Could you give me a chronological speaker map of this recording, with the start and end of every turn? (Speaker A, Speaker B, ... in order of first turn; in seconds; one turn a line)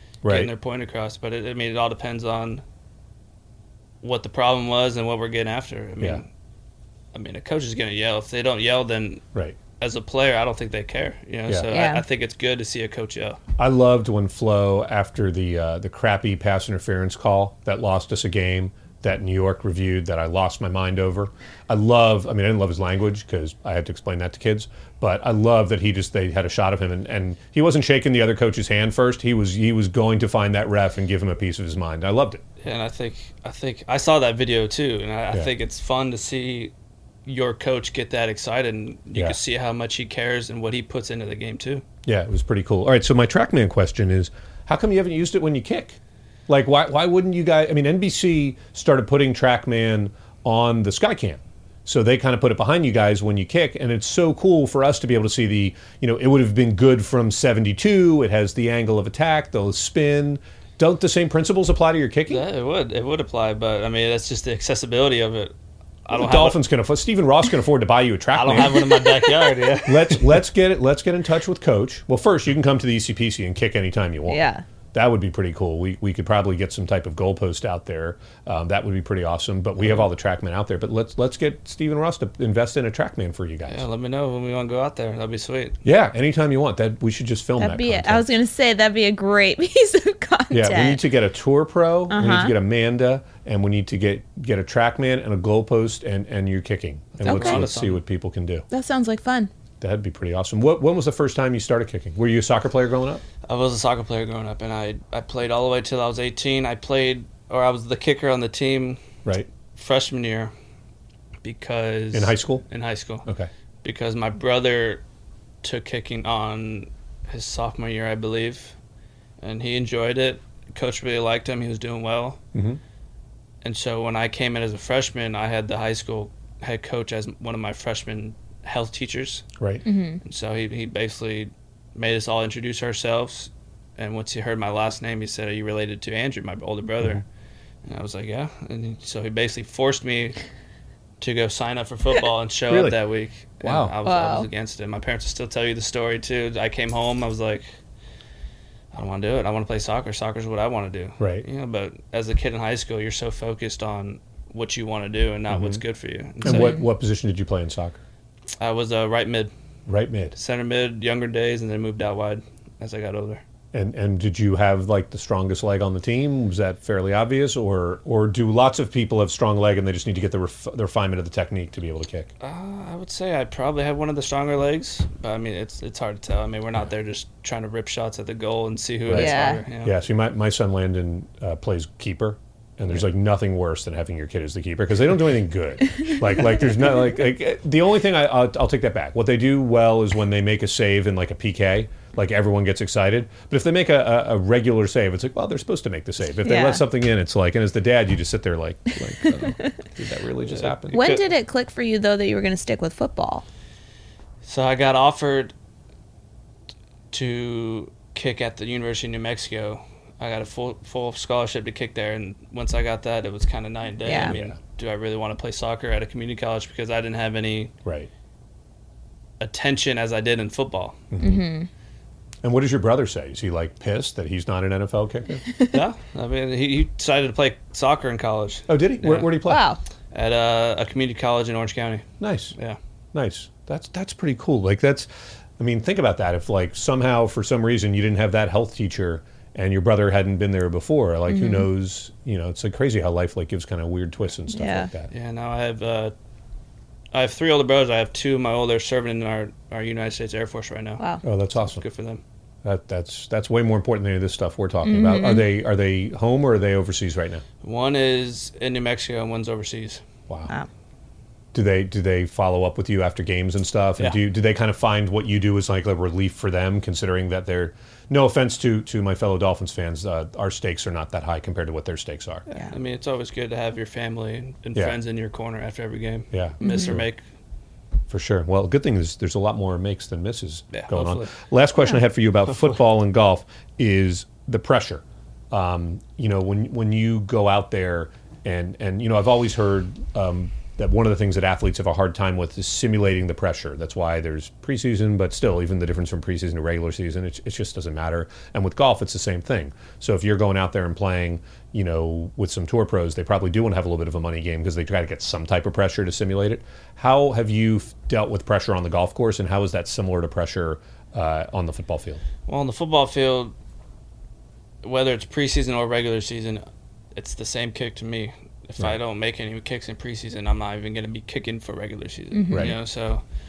Speaker A: 0.2-0.5
Speaker B: 0.2-2.6
Speaker B: 4.0-6.3
Speaker B: 7.1-9.2
Speaker B: 9.8-13.4
Speaker A: 11.5-11.7
Speaker C: 11.7-12.0
Speaker A: 13.6-32.4
Speaker B: 32.6-36.7
Speaker B: 37.2-41.8
Speaker A: 42.0-62.4
Speaker B: 62.3-65.5
Speaker B: 66.0-66.6
Speaker A: 66.1-83.8
Speaker B: 68.3-70.3
Speaker C: 74.3-74.6
Speaker B: 83.7-85.8
Speaker A: 85.8-88.2
Speaker C: 87.6-91.0
Speaker A: 90.5-98.7
Speaker C: 92.1-92.5
Speaker B: 97.2-98.0
Speaker C: 97.2-97.6
Speaker C: 98.7-99.5
Speaker A: 99.8-103.2
Speaker B: 103.4-109.0
Speaker B: 109.7-110.5
Speaker B: 111.4-113.2
Speaker A: 112.1-112.6
Speaker B: 113.8-115.0
Speaker B: 115.6-118.8
Speaker B: 119.4-122.4
Speaker A: 122.5-122.8
Speaker B: 123.6-129.5
Speaker C: 129.8-130.2
Speaker B: 130.2-137.2
Speaker B: 137.8-140.4
Speaker B: 141.2-147.7
Speaker A: 142.7-143.0
Speaker A: 143.6-143.9
Speaker C: 144.0-144.5
Speaker B: 148.9-156.8
Speaker A: 151.2-151.4
Speaker A: 155.5-155.8
Speaker A: 156.4-158.0
Speaker C: 156.4-156.8
Speaker B: 158.6-159.5
Speaker A: 159.9-160.3
Speaker B: 160.3-163.4
Speaker A: 163.7-172.3
Speaker B: 172.4-179.9
Speaker A: 179.1-201.0
Speaker C: 179.1-179.6
Speaker C: 196.4-196.8
Speaker B: 200.6-201.2
Speaker C: 200.9-203.4
Speaker B: 204.4-205.5
Speaker B: 207.1-217.7
Speaker C: 214.0-214.3
Speaker A: 214.2-214.6
Speaker A: 217.8-218.1
Speaker B: 219.4-221.0
Speaker A: 221.1-221.4
Speaker C: 221.2-221.7
Speaker A: 222.4-225.4
Speaker B: 225.7-229.4
Speaker A: 228.7-229.6
Speaker C: 229.4-229.8
Speaker B: 230.1-232.8
Speaker A: 232.2-232.5
Speaker A: 233.1-235.1
Speaker A: 235.6-245.1
Speaker C: 241.3-241.7
Speaker C: 244.5-244.9
Speaker B: 245.1-246.1
Speaker B: 247.1-251.0
Speaker A: 251.2-251.8
Speaker B: 251.6-252.2
Speaker A: 252.6-257.4
Speaker C: 254.8-255.5
Speaker B: 257.6-260.0
Speaker A: 261.5-272.4
Speaker B: 272.5-277.2
Speaker A: 276.3-277.1
Speaker C: 276.6-276.9
Speaker A: 278.1-312.2
Speaker B: 280.7-281.4
Speaker B: 312.5-313.5
Speaker B: 314.8-316.6
Speaker B: 317.1-323.2
Speaker C: 322.3-322.7